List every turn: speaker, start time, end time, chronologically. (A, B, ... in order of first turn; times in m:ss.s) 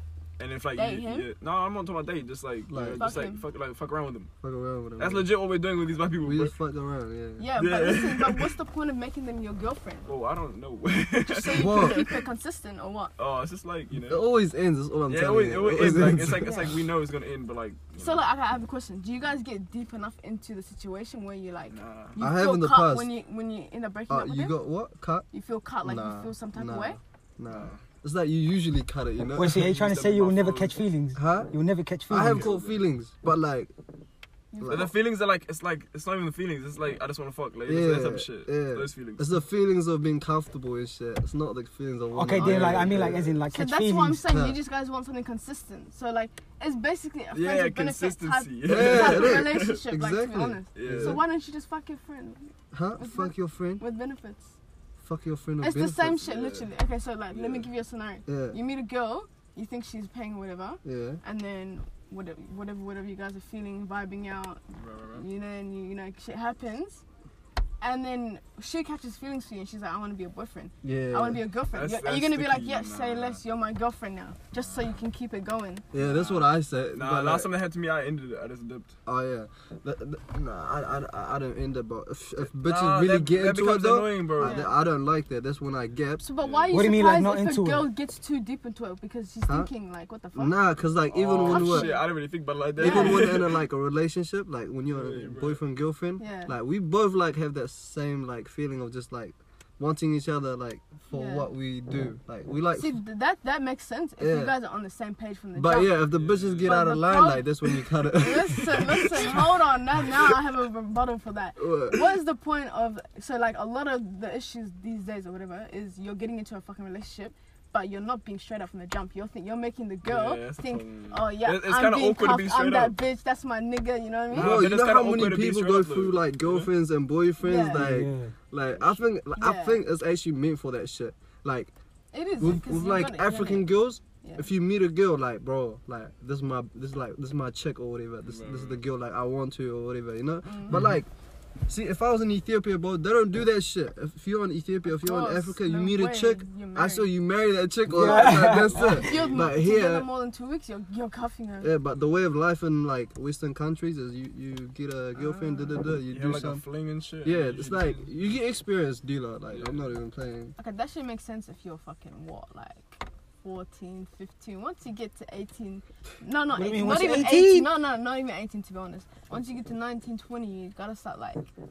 0:00.4-0:04.3 A
0:00.7-0:01.3 B
0:02.7-0:03.1 C
0:03.0-0:03.4 B
0:04.4-0:05.3 C
0:05.0-0:06.6 A
0:06.2-0:07.5 C
0:07.4-0:10.1 B
0:07.6-0:08.5 A
0:10.0-0:12.2 A
0:11.2-0:13.1 B
0:11.4-0:12.0 C
0:13.2-0:14.2 A
0:13.9-0:16.5 C
0:15.1-0:18.2 A
0:16.4-0:16.8 B
0:18.0-0:24.6 B
0:21.7-0:22.2 A
0:22.2-0:23.1 C
0:24.1-0:25.2 C
0:25.3-0:27.0 B
0:25.8-0:29.6 C
0:27.5-0:27.8 A
0:29.3-0:32.5 D
0:29.5-0:30.8 A
0:31.1-0:31.5 C
0:32.1-0:33.7 C
0:32.2-0:32.8 A
0:34.5-0:34.9 B
0:34.6-0:34.9 C
0:34.7-0:39.3 A
0:37.7-0:43.4 C
0:42.1-0:44.2 D
0:42.3-0:54.6 B
0:44.2-0:44.6 C
0:47.3-0:49.8 A
0:48.6-0:51.2 C
0:50.7-0:51.2 A
0:52.7-0:53.8 C
0:55.0-0:56.3 C
0:55.6-1:04.6 B
0:56.3-0:56.7 A
0:57.3-0:57.7 A
0:58.3-0:58.6 C
1:00.8-1:01.2 C
1:04.7-1:05.2 A
1:05.1-1:07.0 B
1:07.8-1:15.8 B
1:10.8-1:11.4 C
1:11.7-1:13.4 A
1:15.9-1:17.5 C
1:15.9-1:18.9 A
1:19.0-1:26.2 C
1:22.4-1:24.6 A
1:24.4-1:24.7 B
1:26.2-1:30.5 B
1:26.4-1:26.8 A
1:26.7-1:27.9 D
1:30.3-1:31.9 C
1:31.1-1:33.6 A
1:31.5-1:32.1 B
1:32.8-1:33.2 B
1:32.8-1:43.0 C
1:34.9-1:35.6 A
1:36.2-1:36.5 B
1:41.1-1:41.5 B
1:42.7-1:46.0 B
1:44.2-1:44.5 C
1:45.5-1:49.4 C
1:46.1-1:46.8 A
1:46.6-2:04.6 B
1:51.6-1:52.0 C
2:00.0-2:03.0 A
2:04.3-2:06.7 A
2:04.3-2:11.7 C
2:07.4-2:07.9 B
2:07.7-2:08.3 D
2:08.7-2:09.2 A
2:09.4-2:09.8 B
2:12.1-2:13.7 B
2:12.4-2:21.1 C
2:14.2-2:14.5 B
2:18.3-2:18.8 A
2:20.4-2:20.8 B
2:20.7-2:21.0 D
2:21.7-2:30.1 C
2:24.9-2:27.1 B
2:27.9-2:29.0 D
2:28.7-2:29.5 A
2:28.9-2:31.7 B
2:31.6-2:36.6 C
2:35.2-2:35.8 B
2:36.1-2:38.3 A
2:37.2-2:40.5 C
2:39.5-2:39.9 A
2:40.6-2:51.5 B
2:46.5-2:47.7 D